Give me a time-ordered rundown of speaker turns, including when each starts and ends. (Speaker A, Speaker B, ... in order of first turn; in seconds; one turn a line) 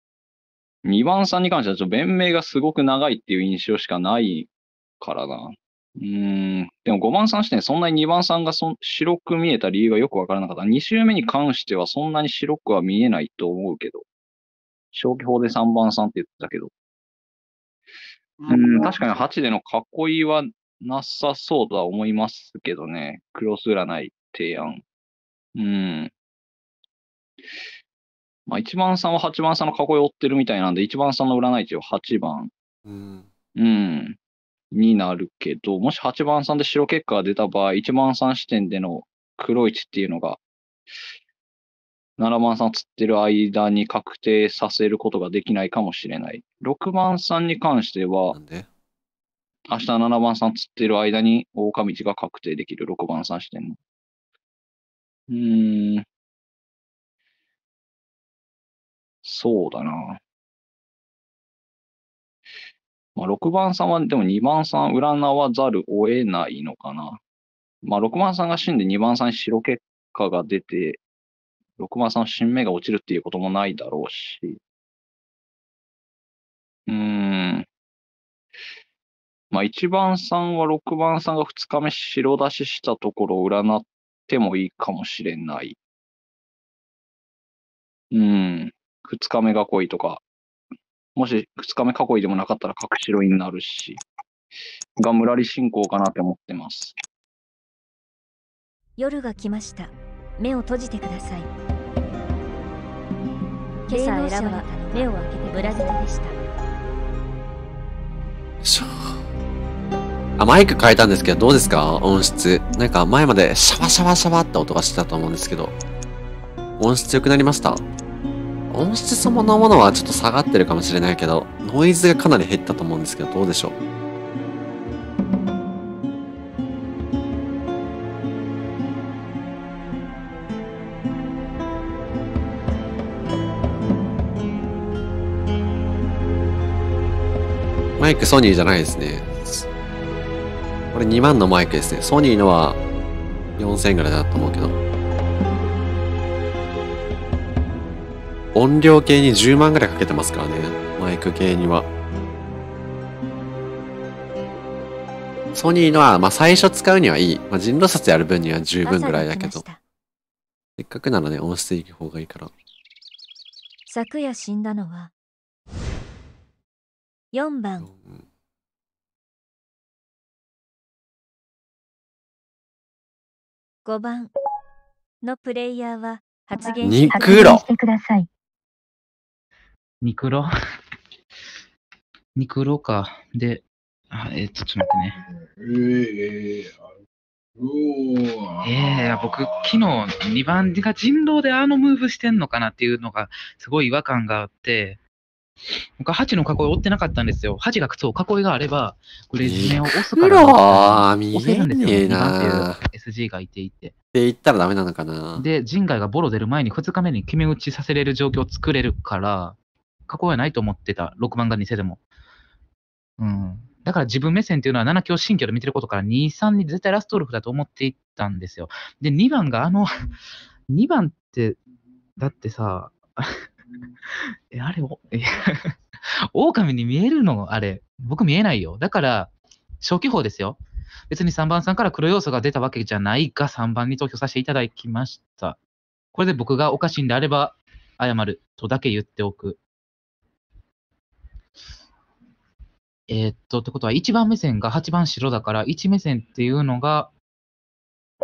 Speaker A: 0.8-14.0
Speaker A: 14.9-16.7
Speaker A: 18.4-24.8
Speaker A: 25.5-26.1
Speaker A: 28.5-32.5
Speaker B: 32.9-33.3
Speaker A: 33.6-34.2
Speaker A: 34.7-40.4
Speaker A: 42.2-48.4
Speaker B: 48.3-48.7
Speaker A: 49.7-53.8
Speaker A: 55.3-56.0
Speaker A: 59.2-60.2
Speaker A: 63.1-67.2
Speaker A: 67.8-71.0
Speaker A: 71.8-74.6
Speaker A: 76.9-77.7
Speaker A: 79.5-85.8
Speaker A: 88.1-90.2
Speaker A: 91.2-94.0
Speaker A: 95.0-97.0
Speaker C: 99.0-101.5
Speaker D: 103.9-106.1
Speaker C: 103.9-106.3
Speaker B: 108.6-109.1
Speaker B: 110.4-115.7
Speaker B: 116.8-117.8
Speaker B: 118.7-123.7
Speaker B: 138.0-139.6
Speaker B: 140.9-142.8
Speaker B: 143.6-144.7
Speaker B: 148.5-151.9
Speaker B: 155.5-159.6
Speaker C: 158.8-159.8
Speaker B: 160.8-162.5
Speaker C: 163.9-165.1
Speaker C: 167.3-167.9
Speaker B: 167.8-168.2
Speaker C: 173.8-174.3
Speaker C: 175.2-177.6
Speaker D: 176.6-178.3
Speaker B: 176.8-177.6
Speaker E: 180.0-180.5
Speaker E: 182.3-185.2
Speaker E: 188.6-195.0
Speaker E: 196.0-203.9
Speaker B: 199.4-202.8
Speaker B: 204.1-205.4
Speaker E: 205.3-212.0
Speaker E: 213.2-219.9
Speaker E: 220.7-221.6
Speaker E: 222.2-223.3
Speaker E: 224.5-225.7
Speaker E: 226.3-235.6
Speaker E: 236.1-239.6
Speaker E: 243.1-247.1